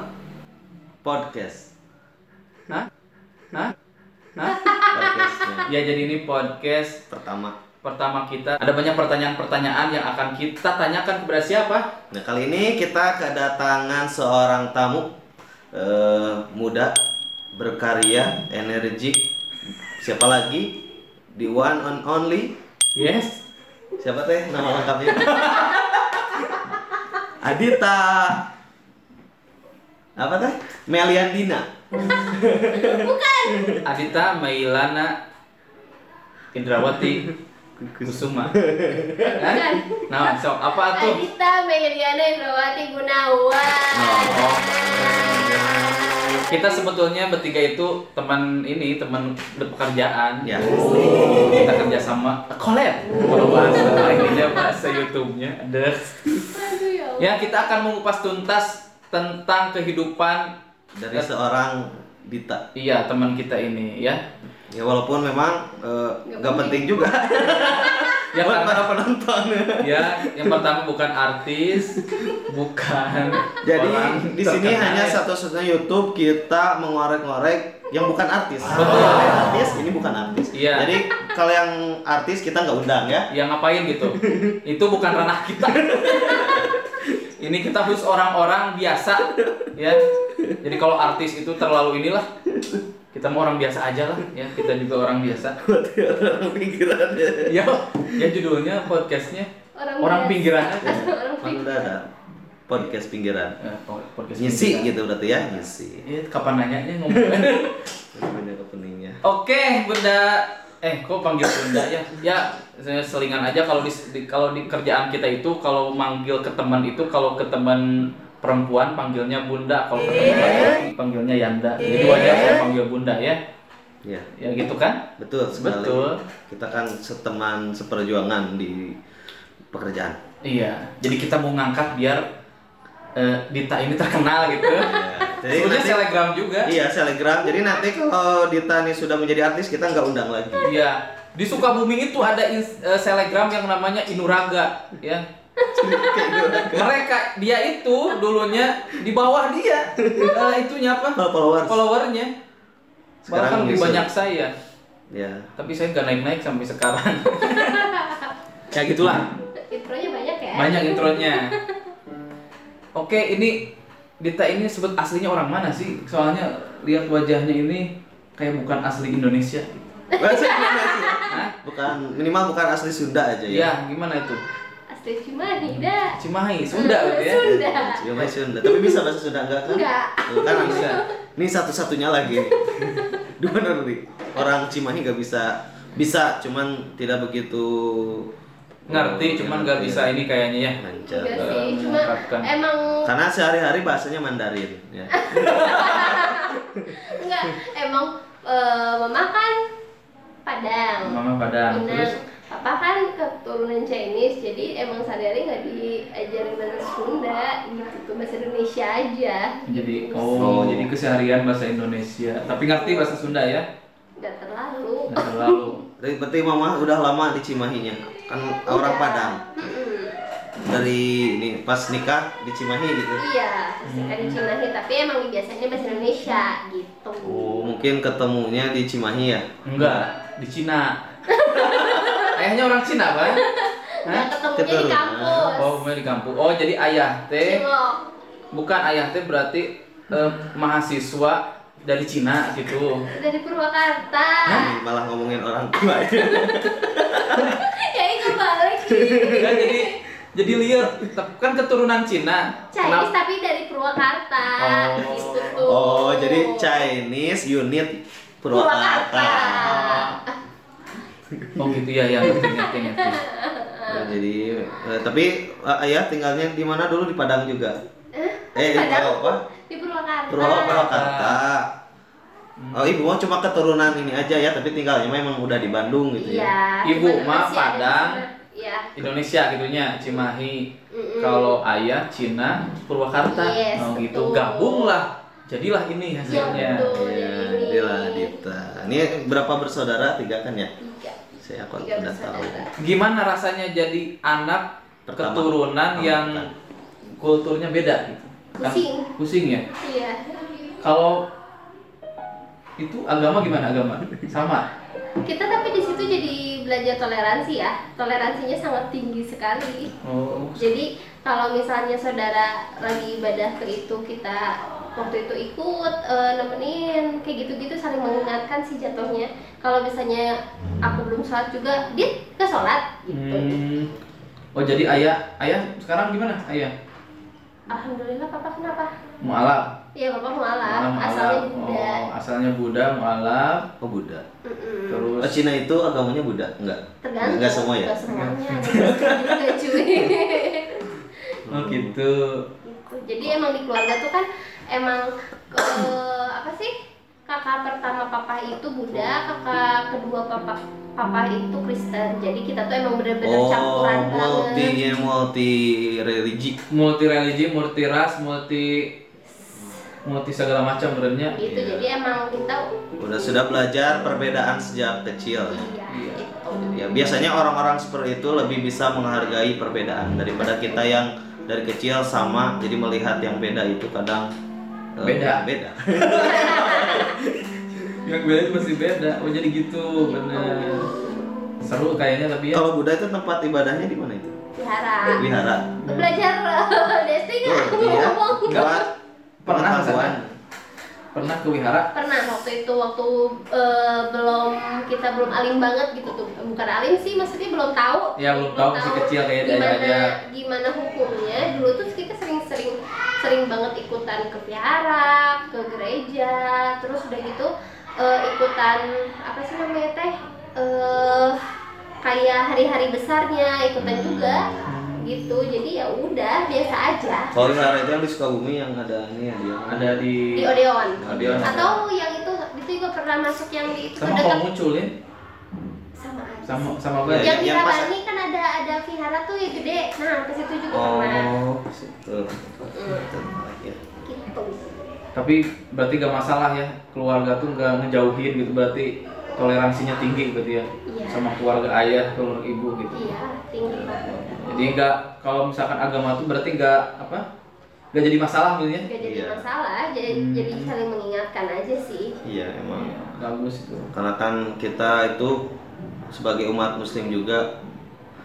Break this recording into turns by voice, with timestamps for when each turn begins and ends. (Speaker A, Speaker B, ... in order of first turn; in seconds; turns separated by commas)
Speaker A: 1.0-1.7, Speaker B: 4.3-4.9, Speaker C: 4.5-5.5, Speaker A: 4.9-5.7, Speaker B: 5.6-7.0, Speaker A: 7.1-7.5, Speaker B: 7.8-11.9, Speaker A: 12.1-15.1, Speaker A: 15.7-16.9, Speaker A: 17.5-19.2, Speaker A: 20.0-20.7, Speaker A: 21.3-22.5, Speaker B: 22.9-23.4, Speaker A: 24.0-25.8, Speaker B: 25.1-26.8, Speaker A: 27.4-28.4, Speaker A: 30.2-34.0, Speaker C: 32.7-33.8, Speaker B: 33.8-35.1, Speaker B: 36.5-37.3, Speaker A: 36.8-39.4, Speaker B: 38.0-38.5, Speaker C: 39.2-46.9, Speaker B: 39.3-41.2, Speaker A: 43.9-46.3, Speaker B: 44.2-45.5, Speaker B: 46.5-56.6, Speaker A: 50.4-51.6, Speaker C: 50.8-51.1, Speaker C: 53.2-55.0, Speaker C: 56.4-57.6, Speaker B: 57.2-60.5, Speaker A: 61.0-62.6, Speaker B: 62.7-64.2, Speaker A: 64.7-70.6, Speaker C: 66.3-66.9, Speaker B: 67.5-67.8, Speaker C: 67.8-68.1, Speaker B: 68.3-68.9, Speaker B: 69.8-75.2, Speaker A: 71.8-72.3, Speaker A: 73.6-83.3, Speaker B: 78.7-79.5, Speaker B: 80.5-81.0, Speaker B: 83.3-86.7, Speaker A: 84.0-84.6, Speaker A: 85.2-87.2, Speaker B: 87.2-92.3, Speaker A: 89.3-90.6, Speaker A: 92.5-92.8, Speaker B: 93.1-95.6, Speaker A: 95.6-98.3, Speaker B: 97.4-99.5, Speaker C: 99.8-101.9, Speaker B: 100.0-101.1, Speaker A: 100.8-102.0, Speaker A: 102.7-103.5, Speaker B: 103.6-107.9, Speaker A: 104.3-106.0, Speaker A: 107.1-109.2, Speaker B: 109.2-123.4, Speaker B: 124.3-126.2, Speaker A: 125.2-129.0, Speaker A: 129.7-130.2, Speaker B: 130.4-132.2, Speaker B: 133.1-134.9, Speaker C: 134.6-135.4, Speaker A: 134.8-136.0, Speaker B: 135.4-136.7, Speaker A: 136.6-140.7, Speaker B: 140.6-145.2, Speaker C: 145.6-146.6, Speaker A: 145.7-146.9, Speaker B: 146.6-152.3, Speaker A: 150.0-150.3, Speaker A: 151.2-151.8, Speaker B: 153.2-154.5, Speaker A: 153.2-154.1, Speaker A: 155.1-155.5, Speaker B: 155.6-159.3, Speaker C: 157.4-158.3, Speaker C: 159.7-161.7, Speaker B: 160.5-161.5, Speaker B: 162.9-163.6, Speaker B: 164.2-170.0, Speaker C: 170.1-171.4, Speaker A: 170.2-173.7, Speaker B: 171.2-171.6, Speaker B: 173.5-174.4, Speaker C: 174.9-176.2, Speaker B: 175.7-177.5, Speaker C: 176.7-178.1, Speaker A: 177.4-188.3, Speaker C: 178.6-179.1, Speaker C: 179.6-181.1, Speaker B: 180.4-181.0, Speaker C: 182.3-183.2, Speaker A: 188.9-190.1, Speaker B: 188.9-192.5, Speaker A: 190.8-191.6, Speaker C: 191.0-193.1, Speaker A: 193.0-196.9, Speaker C: 195.1-199.5, Speaker C: 200.4-210.4, Speaker B: 201.0-202.2, Speaker B: 209.7-213.7, Speaker A: 210.3-210.9, Speaker C: 212.7-213.2, Speaker C: 214.2-215.8, Speaker B: 215.1-215.8, Speaker A: 216.0-219.4, Speaker C: 218.7-220.2, Speaker A: 220.6-223.2, Speaker C: 223.2-227.5, Speaker B: 223.8-224.5, Speaker A: 227.2-230.1, Speaker B: 227.4-227.7, Speaker B: 229.6-231.0, Speaker C: 231.3-232.4, Speaker B: 231.6-233.4, Speaker C: 233.3-235.8, Speaker B: 234.0-234.3, Speaker A: 234.5-235.5, Speaker B: 235.5-237.6, Speaker C: 237.4-238.0, Speaker B: 238.5-243.1, Speaker C: 243.1-244.7, Speaker A: 244.6-247.6, Speaker C: 245.8-250.0, Speaker A: 248.8-249.6, Speaker B: 249.3-253.1, Speaker A: 250.6-251.1, Speaker C: 252.7-256.9, Speaker B: 254.6-255.6, Speaker A: 255.4-260.0, Speaker C: 258.5-260.4, Speaker B: 259.6-260.2, Speaker A: 261.3-261.7, Speaker B: 261.6-263.2, Speaker C: 262.2-264.1, Speaker A: 263.9-267.8, Speaker C: 268.1-270.9, Speaker A: 268.5-269.4, Speaker A: 270.3-271.7, Speaker B: 270.4-271.4, Speaker B: 272.6-273.0, Speaker A: 272.7-276.5, Speaker C: 276.2-278.9, Speaker B: 276.8-278.2, Speaker B: 278.9-286.9, Speaker C: 280.9-281.6, Speaker C: 283.2-285.0, Speaker A: 286.2-290.7, Speaker C: 286.3-288.4, Speaker C: 290.8-291.2, Speaker A: 291.4-292.6, Speaker C: 291.8-292.7, Speaker B: 292.8-296.5, Speaker A: 295.1-296.5, Speaker B: 297.2-299.7, Speaker C: 298.6-299.1, Speaker C: 299.8-300.4, Speaker B: 300.8-301.2, Speaker B: 302.8-304.7, Speaker C: 305.2-309.9, Speaker B: 310.0-310.8, Speaker C: 310.5-323.6, Speaker B: 323.1-323.9, Speaker B: 324.5-326.7, Speaker C: 327.7-328.9, Speaker B: 329.2-329.7, Speaker C: 329.9-332.0, Speaker B: 330.6-333.7, Speaker A: 333.8-334.2, Speaker C: 334.4-335.1, Speaker B: 334.9-335.4, Speaker A: 335.1-338.0, Speaker C: 337.0-340.9, Speaker B: 338.1-339.1, Speaker A: 341.5-341.9, Speaker B: 341.5-342.4, Speaker C: 342.6-346.7, Speaker C: 347.3-354.8, Speaker A: 353.2-356.6, Speaker B: 354.8-355.1, Speaker B: 356.7-358.9, Speaker C: 359.4-359.8, Speaker B: 360.0-361.4, Speaker C: 361.3-362.7, Speaker A: 361.4-361.9, Speaker A: 363.0-365.7, Speaker C: 365.5-367.2, Speaker B: 365.9-366.3, Speaker A: 366.7-374.3, Speaker A: 375.0-377.1, Speaker B: 375.0-375.4, Speaker B: 376.0-380.9, Speaker C: 376.1-377.1, Speaker C: 380.0-381.1, Speaker B: 381.6-382.6, Speaker A: 382.5-384.4, Speaker C: 384.6-385.2, Speaker A: 385.1-385.8, Speaker C: 385.8-388.9, Speaker B: 385.9-386.2, Speaker A: 387.4-388.9, Speaker B: 389.4-390.2, Speaker A: 389.4-390.3, Speaker B: 391.1-391.9, Speaker C: 391.9-407.5, Speaker B: 398.2-400.1, Speaker C: 408.0-411.4, Speaker C: 412.0-417.3, Speaker A: 413.8-414.5, Speaker B: 414.7-415.1, Speaker A: 417.3-420.1, Speaker B: 419.7-421.7, Speaker C: 420.3-424.5, Speaker A: 421.0-421.7, Speaker B: 424.0-424.9, Speaker C: 426.0-431.3, Speaker B: 426.4-427.4, Speaker A: 427.1-427.9, Speaker A: 430.7-433.8, Speaker C: 432.6-433.1, Speaker C: 434.0-434.8, Speaker B: 435.1-443.1, Speaker C: 440.9-441.2, Speaker C: 442.9-444.7, Speaker A: 443.6-444.2, Speaker B: 444.3-447.2, Speaker B: 447.9-448.9, Speaker C: 448.8-452.1, Speaker A: 449.0-449.4, Speaker B: 450.1-450.7, Speaker A: 452.2-452.9, Speaker B: 452.7-453.9, Speaker A: 453.9-455.3, Speaker A: 456.1-457.5